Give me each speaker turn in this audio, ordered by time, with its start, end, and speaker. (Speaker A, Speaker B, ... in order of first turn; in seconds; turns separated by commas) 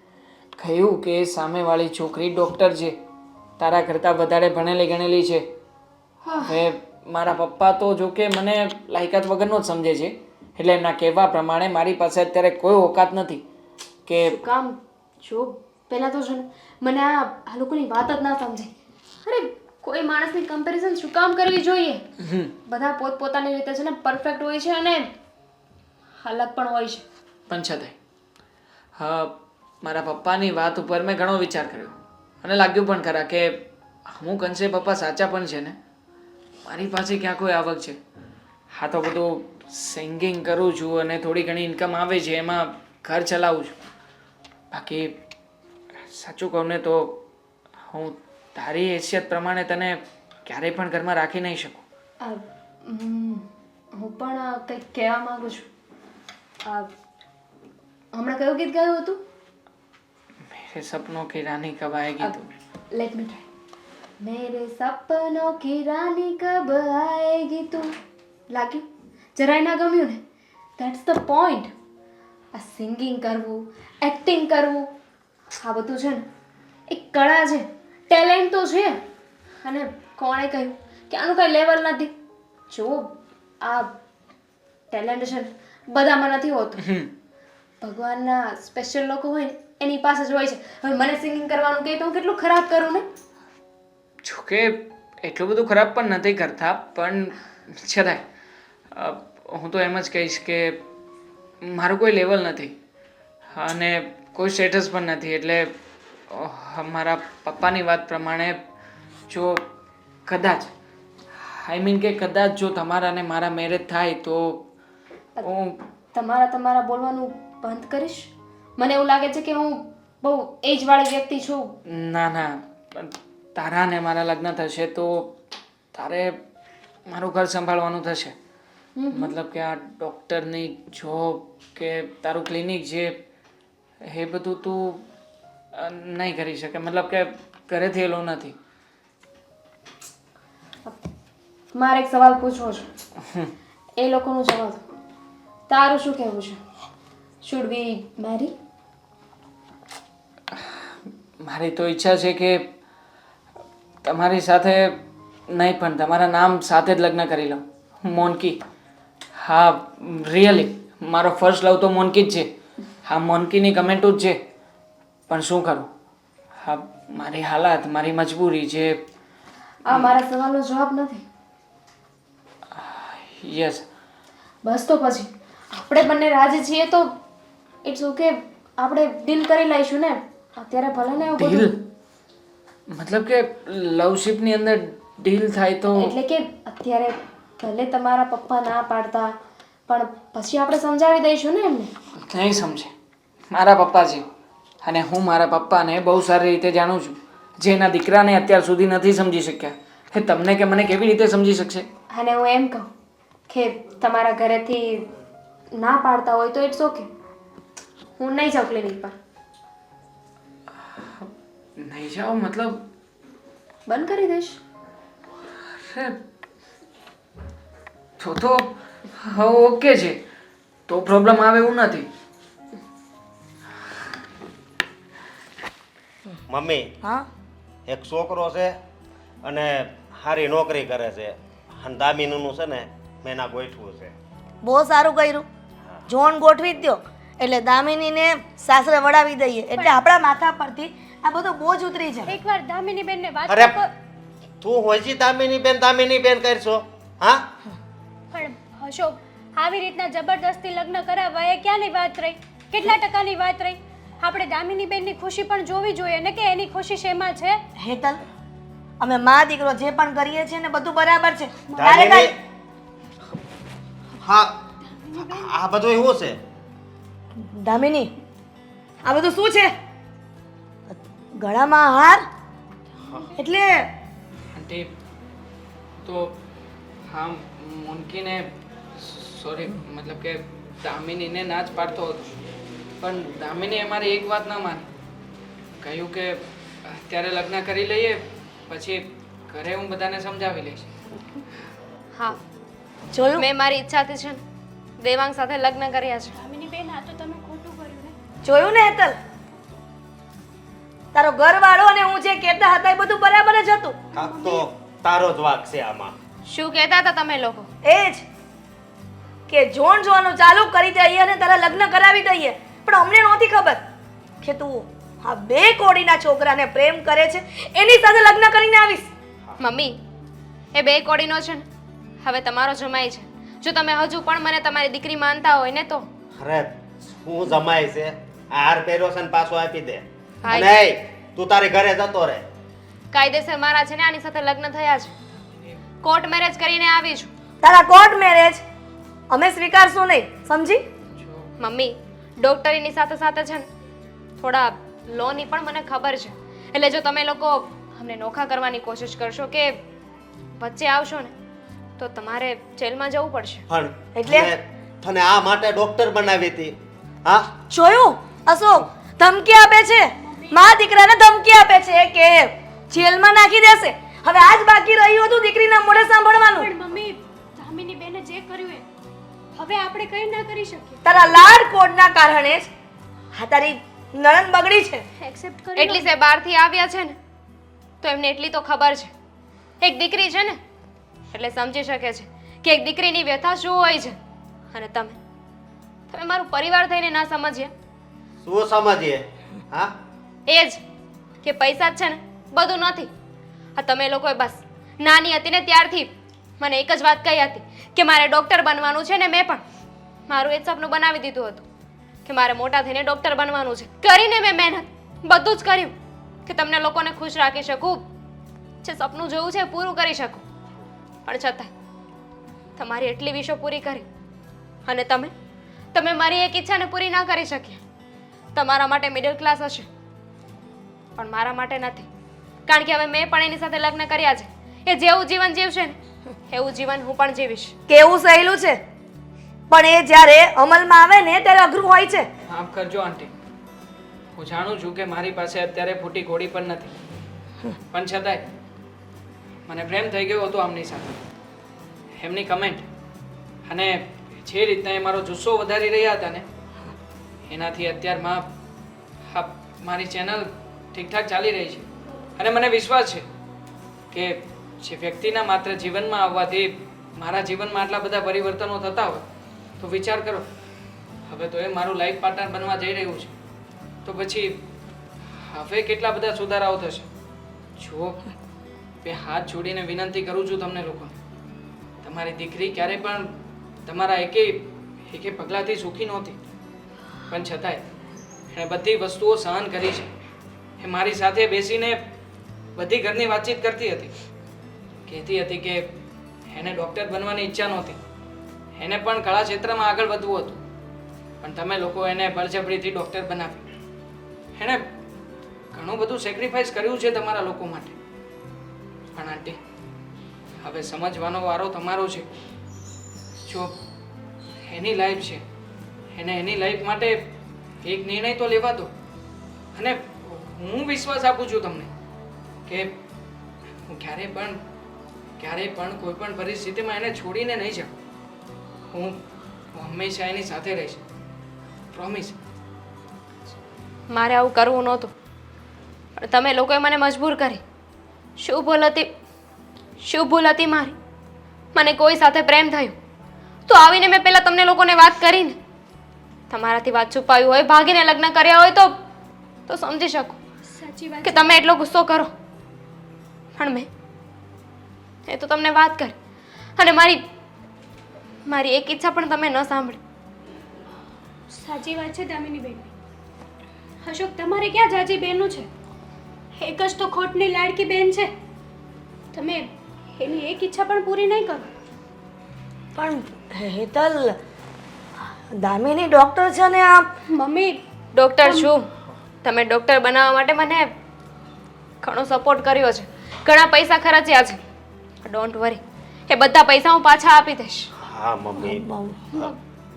Speaker A: 0.6-3.0, Speaker A: 3.6-5.5, Speaker B: 6.2-6.6, Speaker A: 6.4-13.4, Speaker A: 14.1-14.4, Speaker B: 14.3-18.7, Speaker B: 19.2-22.1, Speaker A: 22.2-22.5, Speaker B: 22.7-25.1, Speaker B: 26.2-27.0, Speaker A: 27.5-27.9, Speaker A: 29.0-35.8, Speaker A: 36.7-38.0, Speaker A: 38.7-43.8, Speaker A: 44.7-45.1, Speaker A: 46.1-47.2, Speaker A: 47.9-51.8, Speaker B: 52.2-55.7, Speaker B: 56.6-56.9, Speaker B: 58.1-59.2, Speaker A: 60.5-62.5, Speaker B: 62.9-63.5, Speaker B: 64.2-67.9, Speaker B: 68.5-70.2, Speaker B: 70.8-71.7, Speaker B: 72.5-74.9, Speaker B: 75.5-76.3, Speaker B: 76.9-79.0, Speaker B: 79.6-82.1, Speaker B: 82.7-83.9, Speaker B: 84.9-86.8, Speaker A: 86.8-87.1, Speaker B: 87.8-93.1, Speaker A: 94.2-98.2, Speaker A: 98.9-100.8, Speaker A: 101.6-102.8, Speaker A: 103.5-105.7, Speaker A: 106.3-108.6, Speaker A: 109.3-109.7, Speaker A: 110.3-110.7, Speaker A: 111.4-114.7, Speaker A: 115.4-115.8, Speaker B: 116.1-121.7, Speaker A: 121.9-125.3, Speaker A: 125.9-126.4, Speaker A: 127.1-128.3, Speaker B: 129.0-129.3, Speaker A: 129.1-133.2, Speaker A: 134.0-135.1, Speaker A: 135.7-138.6, Speaker B: 141.7-142.9, Speaker A: 143.2-143.5, Speaker B: 144.0-144.8, Speaker B: 145.7-146.6, Speaker B: 147.4-148.5, Speaker A: 151.4-152.7, Speaker A: 154.0-155.0, Speaker A: 155.5-158.6, Speaker A: 159.4-162.5, Speaker A: 163.0-164.4, Speaker A: 165.3-165.9, Speaker A: 166.6-169.0, Speaker B: 169.9-171.2, Speaker A: 172.7-173.8, Speaker B: 174.6-177.1, Speaker B: 177.8-181.8, Speaker A: 181.3-181.8, Speaker A: 182.9-186.1, Speaker B: 185.9-189.3, Speaker B: 189.9-191.9, Speaker A: 192.2-192.9, Speaker A: 193.5-194.3, Speaker A: 194.8-201.9, Speaker B: 202.1-202.9, Speaker B: 203.5-205.1, Speaker B: 205.7-207.1, Speaker B: 208.2-209.2, Speaker A: 210.9-212.9, Speaker B: 213.9-214.6, Speaker A: 215.7-216.2, Speaker A: 218.2-220.2, Speaker A: 220.9-222.1, Speaker C: 226.5-226.9, Speaker C: 227.9-228.8, Speaker C: 229.4-234.1, Speaker D: 234.6-235.5, Speaker D: 236.1-242.4, Speaker E: 242.2-243.9, Speaker C: 243.5-243.8, Speaker C: 244.6-247.5, Speaker E: 248.3-257.6, Speaker D: 257.8-258.2, Speaker D: 259.0-262.3, Speaker E: 261.8-262.1, Speaker C: 261.8-262.4, Speaker C: 264.2-264.6, Speaker E: 264.9-265.5, Speaker C: 265.1-266.4, Speaker D: 267.4-268.1, Speaker D: 269.1-269.7, Speaker D: 270.9-272.3, Speaker D: 273.4-273.9, Speaker A: 274.5-274.9, Speaker A: 276.0-276.4, Speaker A: 277.1-282.3, Speaker A: 283.0-284.9, Speaker A: 285.8-290.9, Speaker B: 292.1-292.4, Speaker D: 293.1-293.4, Speaker B: 293.4-294.4, Speaker B: 295.0-296.3, Speaker E: 296.3-298.2, Speaker D: 298.4-299.2, Speaker D: 301.1-304.0, Speaker C: 304.1-306.1, Speaker E: 304.1-304.7, Speaker B: 306.5-307.7, Speaker D: 307.8-308.2, Speaker D: 309.5-313.8, Speaker D: 314.4-319.1, Speaker B: 319.6-320.0, Speaker B: 320.7-321.6, Speaker B: 322.2-326.1, Speaker C: 326.4-332.5, Speaker B: 330.4-330.7, Speaker B: 333.1-335.1, Speaker B: 336.0-337.3, Speaker D: 337.6-338.6, Speaker D: 339.3-340.8, Speaker A: 341.2-341.5, Speaker B: 341.6-343.7, Speaker B: 344.4-349.8, Speaker B: 350.6-351.3, Speaker B: 352.0-353.6, Speaker C: 353.7-357.6, Speaker D: 354.1-354.5, Speaker D: 357.7-366.7, Speaker E: 360.2-360.7, Speaker E: 366.5-368.9, Speaker E: 369.6-371.2, Speaker D: 371.1-372.7, Speaker D: 373.3-375.1, Speaker E: 375.2-376.1, Speaker B: 375.8-377.2, Speaker B: 378.0-379.1, Speaker B: 379.8-380.6, Speaker B: 381.3-384.2, Speaker B: 384.7-385.2, Speaker B: 386.1-387.7, Speaker C: 388.4-389.9, Speaker B: 390.5-390.8, Speaker B: 391.4-393.1, Speaker B: 393.8-399.6, Speaker B: 400.3-401.6, Speaker B: 402.2-405.9, Speaker B: 406.5-408.1, Speaker B: 408.8-410.4, Speaker B: 411.2-411.7, Speaker B: 412.8-414.1, Speaker B: 414.9-415.3, Speaker B: 415.9-417.8, Speaker B: 418.6-419.9, Speaker B: 421.2-422.1, Speaker B: 422.7-426.0, Speaker B: 426.5-427.8, Speaker D: 427.9-428.8, Speaker D: 429.7-432.3, Speaker A: 432.5-433.3, Speaker A: 434.4-436.9, Speaker A: 437.9-438.5, Speaker A: 439.7-441.2, Speaker A: 442.2-442.9, Speaker A: 443.6-446.5, Speaker A: 447.5-448.5, Speaker A: 449.3-453.2, Speaker A: 454.1-459.2, Speaker A: 459.8-460.5, Speaker A: 461.3-463.3, Speaker A: 464.1-464.6, Speaker A: 465.3-467.1, Speaker A: 467.8-468.2, Speaker A: 469.0-471.1, Speaker A: 472.0-476.4, Speaker A: 477.3-477.9, Speaker A: 478.5-480.1, Speaker A: 480.8-482.0, Speaker A: 482.8-484.1, Speaker A: 485.1-485.9, Speaker A: 486.5-488.0, Speaker A: 488.8-490.6, Speaker A: 491.4-493.7, Speaker A: 494.6-494.9, Speaker A: 495.7-498.0, Speaker A: 499.1-499.6, Speaker A: 500.6-502.3, Speaker A: 503.5-503.8, Speaker A: 504.7-505.4, Speaker A: 506.1-507.3, Speaker A: 507.8-508.9, Speaker A: 509.8-511.9, Speaker A: 512.7-513.0, Speaker A: 513.9-514.6, Speaker A: 515.4-517.9, Speaker A: 518.9-519.2, Speaker A: 519.7-521.0, Speaker A: 521.9-522.4, Speaker B: 524.1-525.1, Speaker B: 526.2-527.6, Speaker B: 528.4-529.1, Speaker B: 530.0-531.0, Speaker B: 531.8-533.0, Speaker B: 533.7-535.6, Speaker B: 536.5-539.0, Speaker B: 539.7-540.4, Speaker E: 540.7-541.6, Speaker B: 541.2-542.3, Speaker B: 543.6-543.9, Speaker B: 545.3-546.1, Speaker B: 546.8-547.2, Speaker B: 548.5-550.0, Speaker E: 551.5-552.9, Speaker E: 554.0-555.7, Speaker E: 556.6-558.3, Speaker E: 559.3-561.7, Speaker D: 563.0-564.4, Speaker D: 565.5-567.1, Speaker E: 567.3-567.8, Speaker B: 568.1-568.9, Speaker E: 568.4-568.7, Speaker B: 569.4-570.9, Speaker B: 572.0-574.6, Speaker B: 575.2-577.9, Speaker C: 578.0-579.5, Speaker D: 578.6-579.5